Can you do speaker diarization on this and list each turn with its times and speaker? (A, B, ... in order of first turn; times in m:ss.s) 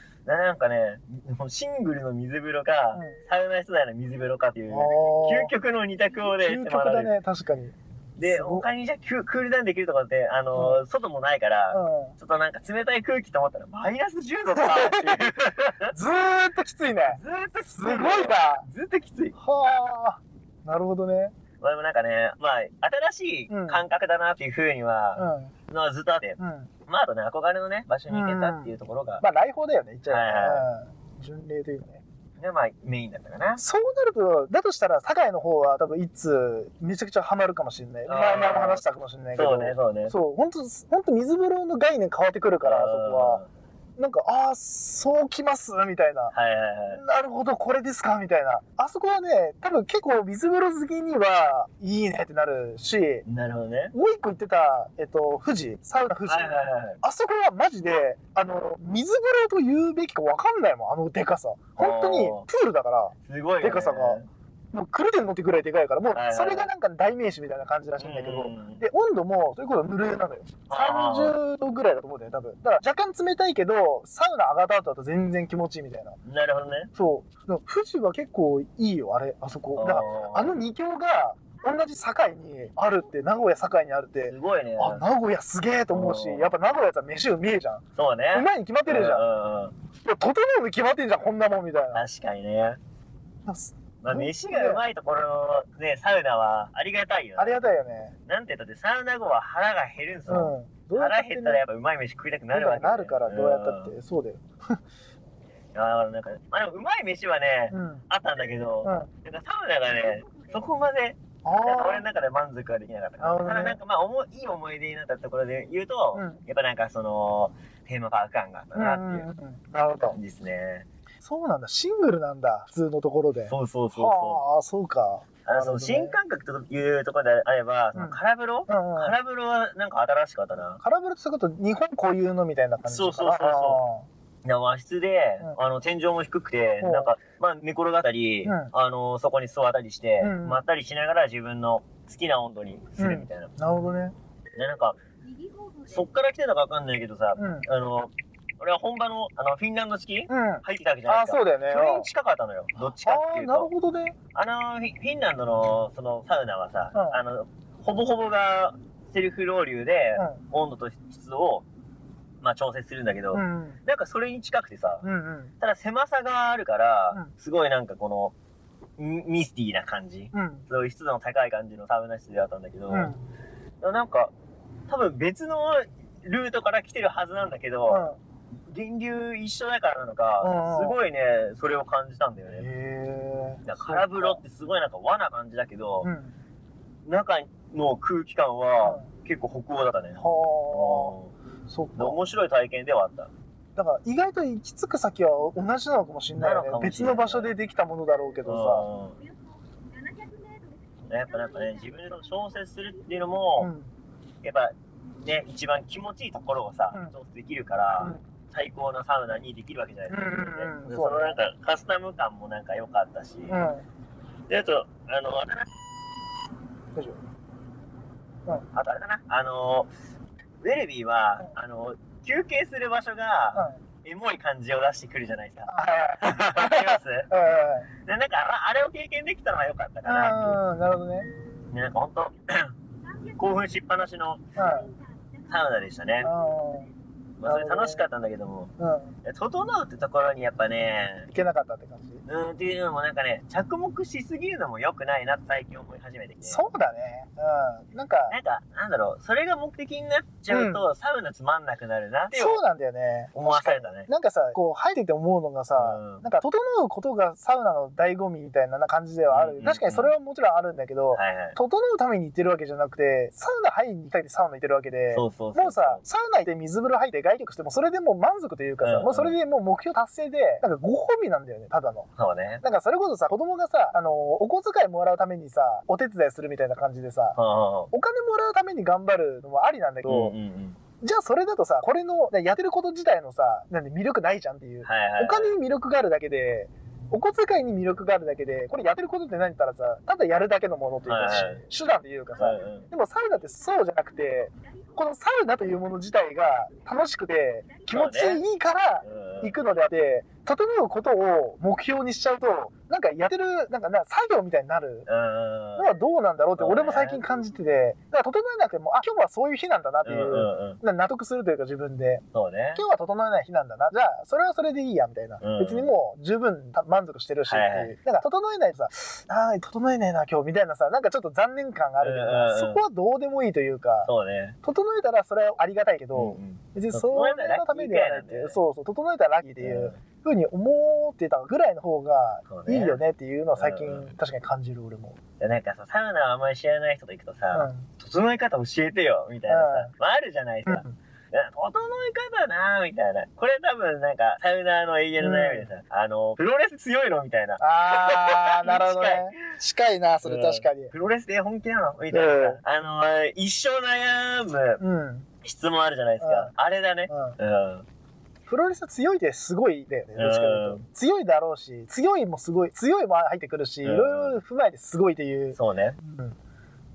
0:00.2-0:07.1 A
0:02.9-0:03.2 B
0:04.7-0:05.5 B
0:06.4-0:08.6 B
0:08.2-0:16.0 A
0:10.6-0:10.8 B
0:11.7-0:12.2 B
0:14.5-0:15.2 B
0:15.9-0:18.6 B
0:17.1-0:19.4 A
0:19.4-0:21.3 B
0:21.6-0:29.2 A
0:23.5-0:23.8 B
0:25.2-0:25.5 B
0:26.4-0:26.7 B
0:28.1-0:32.0 B
0:30.1-0:30.6 A
0:32.4-0:33.6 A
0:33.6-0:43.4 B
0:38.1-0:38.8 A
0:39.4-0:40.1 A
0:42.6-0:43.5 A
0:44.0-0:46.3 B
0:46.3-0:47.0 A
0:46.9-0:53.2 B
0:53.2-0:53.9 A
0:53.9-1:04.2 B
0:56.3-0:57.0 A
1:01.8-1:02.4 A
1:03.2-1:04.3 A
1:04.7-1:16.2 B
1:06.1-1:06.7 A
1:08.0-1:08.8 A
1:10.7-1:11.3 A
1:16.2-1:16.9 A
1:16.9-1:29.3 B
1:19.8-1:20.6 A
1:24.3-1:25.0 A
1:25.9-1:26.5 A
1:28.0-1:29.7 A
1:30.0-1:32.0 B
1:31.9-1:32.8 A
1:33.4-1:34.8 B
1:34.0-1:37.6 A
1:37.4-1:38.1 B
1:38.3-1:44.0 A
1:40.3-1:41.6 B
1:42.5-1:44.8 B
1:45.7-1:59.2 A
1:47.7-1:48.0 B
1:48.8-1:49.1 B
1:51.4-1:52.0 B
1:53.2-1:53.8 B
1:56.1-1:56.4 B
1:58.7-2:00.2 B
2:00.1-2:00.8 A
2:01.2-2:06.2 B
2:03.5-2:04.4 A
2:05.4-2:10.8 A
2:07.9-2:09.2 B
2:10.8-2:14.1 B
2:12.8-2:13.8 A
2:14.4-2:23.5 A
2:16.8-2:17.1 B
2:18.4-2:18.7 B
2:20.2-2:20.6 B
2:23.0-2:24.1 B
2:24.6-2:25.0 A
2:25.9-2:33.7 A
2:27.4-2:27.7 B
2:30.3-2:32.1 B
2:33.0-2:34.2 B
2:34.3-2:41.6 A
2:36.9-2:37.2 B
2:40.2-2:40.4 B
2:42.4-2:45.0 A
2:43.3-2:43.8 B
2:45.0-2:45.5 B
2:45.6-2:48.3 A
2:49.0-2:53.1 A
2:50.3-2:50.7 B
2:52.9-2:53.2 B
2:53.8-2:54.3 A
2:54.9-2:58.0 A
2:57.9-2:58.2 B
2:58.7-3:02.6 A
3:00.4-3:01.0 B
3:02.5-3:04.4 B
3:03.6-3:06.1 A
3:06.0-3:06.4 B
3:07.0-3:11.3 A
3:08.8-3:09.1 B
3:10.2-3:11.1 B
3:11.7-3:12.2 B
3:12.0-3:13.3 A
3:13.8-3:18.9 B
3:16.4-3:17.5 A
3:18.4-3:19.2 A
3:21.1-3:23.7 A
3:23.6-3:23.9 B
3:24.4-3:33.6 A
3:30.1-3:31.4 B
3:33.5-3:33.8 B
3:34.5-3:35.7 A
3:38.7-3:39.9 A
3:40.6-3:45.7 A
3:43.5-3:43.8 B
3:45.7-3:47.9 B
3:46.2-3:47.3 A
3:48.0-3:50.6 A
3:50.0-3:51.3 B
3:51.7-3:52.7 A
3:53.3-3:54.6 A
3:54.5-3:54.9 B
3:55.5-3:56.3 A
3:56.2-3:56.9 B
3:57.4-3:58.7 A
3:57.4-3:58.0 B
3:58.8-3:59.1 B
3:59.2-4:01.3 A
4:01.3-4:02.2 B
4:02.2-4:06.7 A
4:06.4-4:08.4 B
4:08.3-4:12.6 A
4:10.5-4:10.8 B
4:12.3-4:32.1 B
4:13.3-4:14.1 A
4:15.8-4:16.2 A
4:19.3-4:20.1 A
4:21.1-4:21.6 A
4:25.1-4:26.0 A
4:28.8-4:29.3 A
4:32.2-4:32.6 A
4:32.6-4:37.4 B
4:37.4-4:37.9 A
4:37.9-4:40.3 B
4:40.0-4:40.8 A
4:41.0-5:05.1 B
4:44.8-4:45.5 A
4:51.1-4:51.6 A
4:52.4-4:52.9 A
4:57.9-4:58.4 A
4:59.0-4:59.5 A
5:05.1-5:05.9 A
5:05.8-5:12.2 B
5:06.6-5:07.2 A
5:10.0-5:10.8 A
5:12.3-5:12.8 A
5:12.7-5:24.1 B
5:15.4-5:15.9 A
5:17.5-5:17.9 A
5:22.0-5:22.8 A
5:24.0-5:24.6 A
5:24.6-5:35.2 B
5:26.1-5:28.6 A
5:29.6-5:30.0 A
5:32.5-5:33.0 A
5:33.6-5:34.1 A
5:35.4-5:49.3 A
5:37.5-5:37.9 B
5:39.5-5:39.9 B
5:40.6-5:40.9 B
5:45.2-5:45.7 B
5:47.6-5:50.9 B
5:50.2-5:54.8 A
5:52.1-5:52.6 B
5:54.8-5:55.3 B
5:55.4-5:57.8 A
5:56.2-5:56.5 B
5:57.1-5:57.4 B
5:58.5-6:06.4 B
6:00.2-6:00.8 A
6:03.8-6:04.4 A
6:05.5-6:06.0 A